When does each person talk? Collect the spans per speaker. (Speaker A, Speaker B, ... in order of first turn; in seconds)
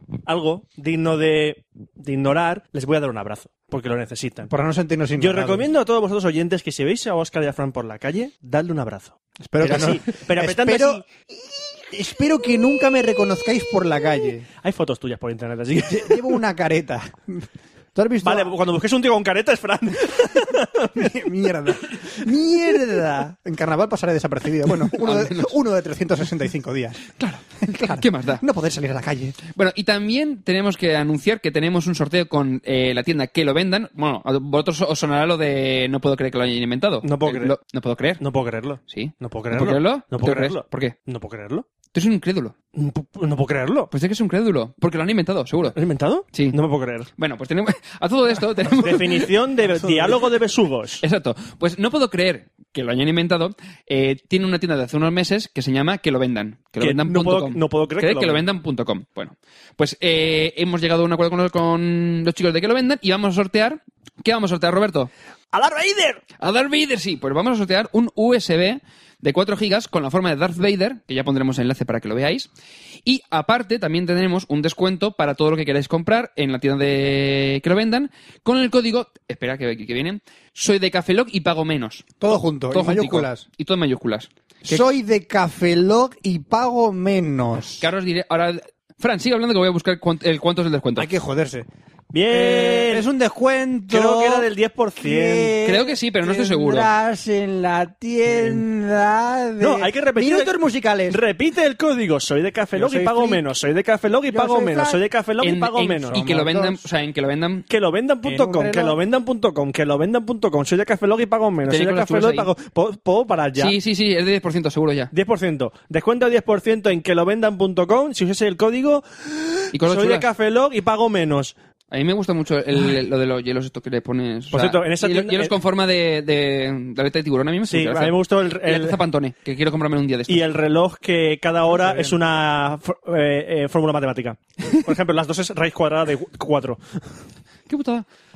Speaker A: 0.2-4.5, 5.2-11.0, 14.6-16.4, 18.2-21.1, 37.0-37.5, 38.2-41.6, 42.7-43.9, 45.7-47.1, 48.8-51.0, 56.8-58.4, 65.5-66.2, 92.1-93.1, 93.9-95.6, 98.3-98.6, 99.6-106.4, 107.7-113.8, 115.1-121.5, 124.5-125.5, 127.7-129.0, 130.3-136.8
Speaker B: 4.5-5.7, 9.4-14.5, 15.9-18.5, 20.9-27.0, 27.6-29.4, 49.8-50.2, 82.2-83.4, 84.7-87.9, 91.0-91.7, 92.3-101.2, 102.7-103.4, 104.3-105.0, 106.2-106.8, 108.2-109.0, 131.7-132.2
Speaker C: 24.9-25.5, 27.2-28.4, 29.5-38.2, 38.9-40.9, 41.9-42.5, 43.9-45.8, 46.3-46.6, 47.2-49.3, 51.0-65.1, 66.4-72.5, 73.0-84.8, 87.8-91.1, 95.6-96.9, 105.4-107.7, 111.6-112.5, 113.6-115.1, 119.7-120.3, 121.9-130.4, 137.7-138.1